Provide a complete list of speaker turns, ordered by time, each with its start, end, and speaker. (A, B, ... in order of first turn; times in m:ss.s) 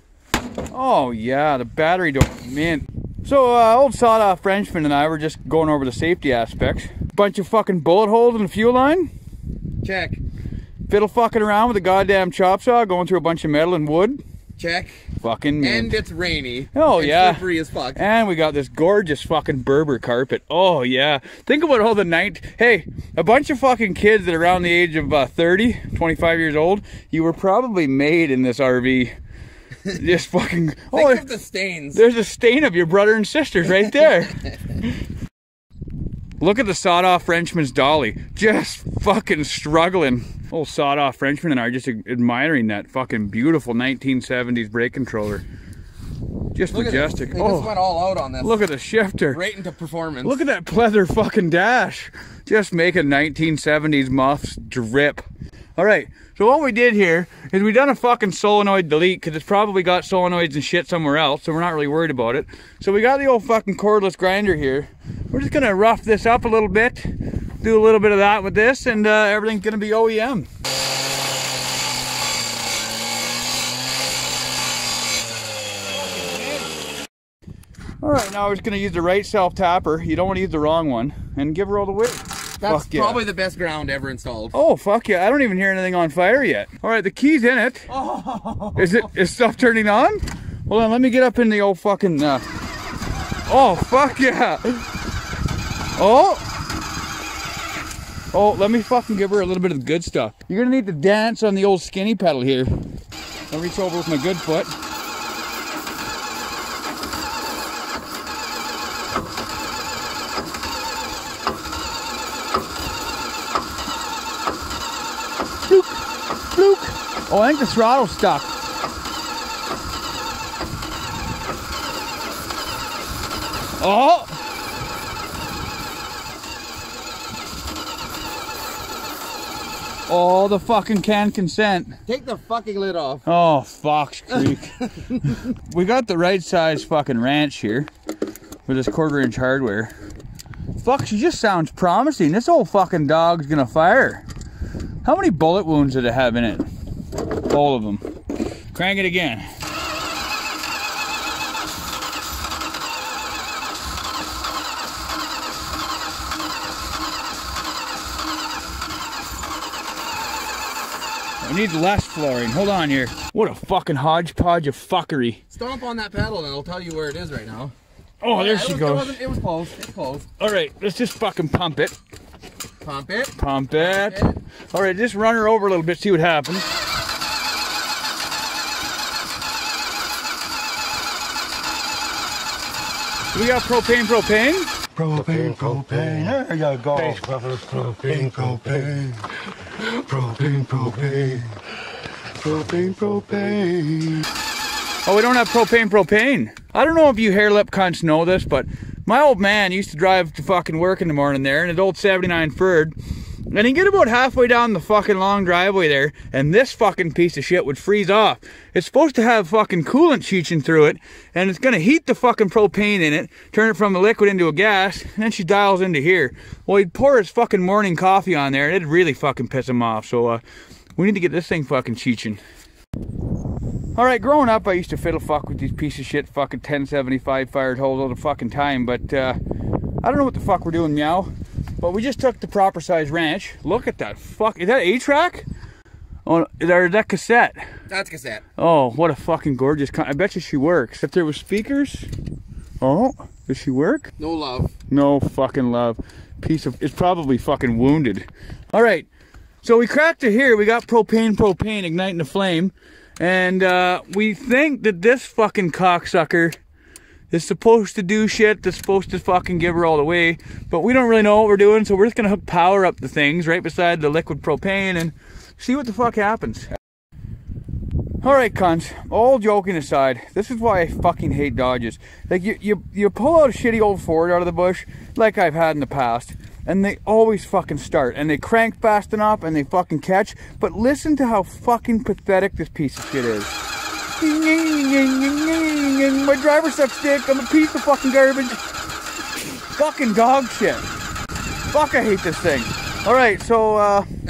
0:00.7-0:09.1 A
0:09.8-0:10.2 B
0:10.9-0:14.2 A
0:14.6-0:15.0 B
0:15.2-0:16.0 A
0:15.6-0:18.0 B
0:16.7-0:29.2 A
0:29.9-0:31.3 A
0:30.9-0:32.0 B
0:31.9-0:35.0 A
0:36.4-0:45.4 A
0:46.5-0:47.8 A
0:46.7-0:48.6 B
0:48.4-0:49.4 A
0:49.3-0:50.4 B
0:50.2-1:10.5 A
1:16.1-1:16.7 B
1:18.0-1:23.2 A
1:22.6-1:24.6 B
1:24.5-1:27.9 A
1:27.9-1:29.1 B
1:28.8-1:32.4 A
1:33.5-1:34.9 A
1:36.0-1:36.5 A
1:38.3-1:42.7 A
1:43.5-1:44.8 A
1:55.7-1:56.0 A
1:56.5-1:58.5 A
2:03.8-2:04.4 A
2:10.1-2:12.0 A
2:12.1-2:13.2 B
2:13.2-2:17.9 A
2:18.7-2:19.9 A
2:20.8-2:24.3 A
2:25.0-2:26.7 A
2:27.5-2:28.1 A
2:28.7-2:29.5 A
2:41.4-2:45.4 A
2:45.5-2:47.7 B
2:48.2-2:49.2 A
2:48.3-2:50.3 B
2:50.4-2:52.0 A
2:52.8-2:54.4 B
2:53.4-2:56.7 A
3:03.3-3:04.7 A
3:05.0-3:09.2 C
3:06.9-3:07.2 A
3:10.1-3:11.4 C
3:12.4-3:14.1 C
3:15.1-3:23.0 A
3:23.5-3:40.4 A
3:41.0-3:42.4 A
3:44.0-3:49.4 A
3:50.0-3:55.5 A
3:56.2-3:57.7 A
3:57.9-3:58.4 B
3:58.6-4:02.1 A
4:02.8-4:04.1 A
4:04.2-4:04.7 B
4:04.9-4:09.1 A
4:09.6-4:16.6 A
4:17.3-4:26.7 A
4:28.2-4:43.6 A
4:44.2-4:48.6 A
4:49.4-4:50.9 A
4:51.7-4:54.1 A